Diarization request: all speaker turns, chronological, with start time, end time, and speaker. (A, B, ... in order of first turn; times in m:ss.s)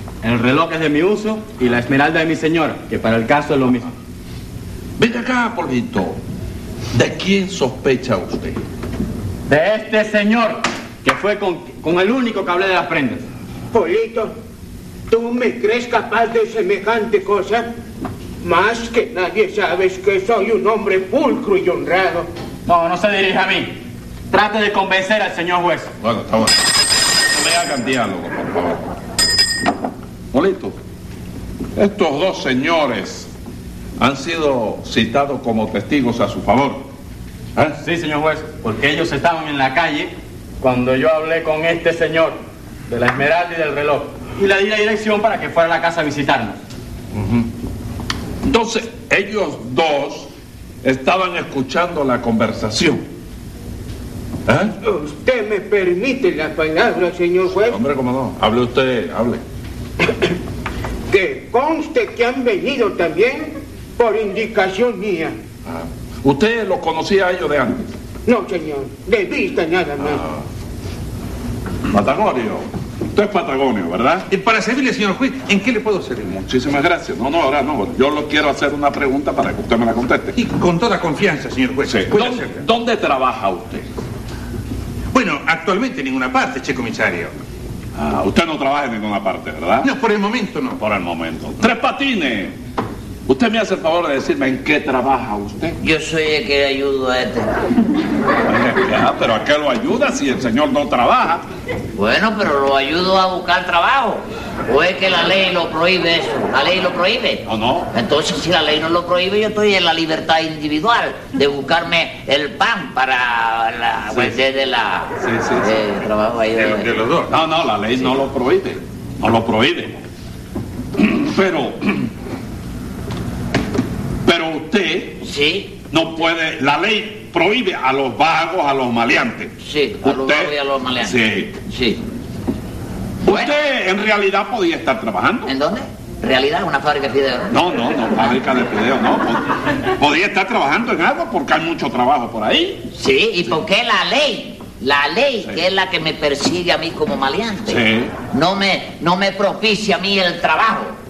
0:00.2-0:03.9 A
0:05.0-0:06.2 B
0:06.9-0:08.6 B
0:09.5-0:13.2 A
0:13.7-0:14.3 C
0:15.1-0:17.7 C
0:18.4-0:22.3 C
0:22.7-0:25.9 A
0:26.0-0:26.6 B
0:27.3-0:28.8 B
0:30.3-0:30.8 B
0:31.8-0:33.3 B
0:34.0-0:36.8 B
0:37.8-0:46.6 A
0:47.2-0:47.4 B
0:48.4-0:50.3 B
0:50.8-0:53.0 B
0:54.5-0:54.7 B
0:54.8-0:57.8 C
0:57.7-0:59.4 B
1:01.1-1:05.4 C
1:05.7-1:07.9 B
1:08.3-1:10.2 C
1:10.1-1:10.4 B
1:11.9-1:14.3 B
1:14.3-1:16.4 D
1:16.4-1:20.4 B
1:20.4-1:22.6 D
1:21.8-1:23.8 B
1:25.1-1:27.3 D
1:28.0-1:29.9 B
1:29.8-1:30.8 D
1:30.8-1:32.6 B
1:33.3-1:35.8 B
1:35.8-1:37.5 E
1:38.5-1:41.4 B
1:42.0-1:57.1 E
1:47.5-1:47.9 B
1:55.2-1:56.0 B
1:56.6-1:57.4 D
1:57.3-2:00.0 B
2:01.0-2:02.1 B
2:04.3-2:05.2 B
2:05.2-2:05.8 E
2:05.9-2:09.5 B
2:09.6-2:12.0 E
2:10.0-2:11.6 B
2:13.2-2:13.6 E
2:13.2-2:15.5 B
2:15.5-2:17.6 E
2:17.5-2:22.9 B
2:22.9-2:31.0 E
2:27.7-2:28.1 B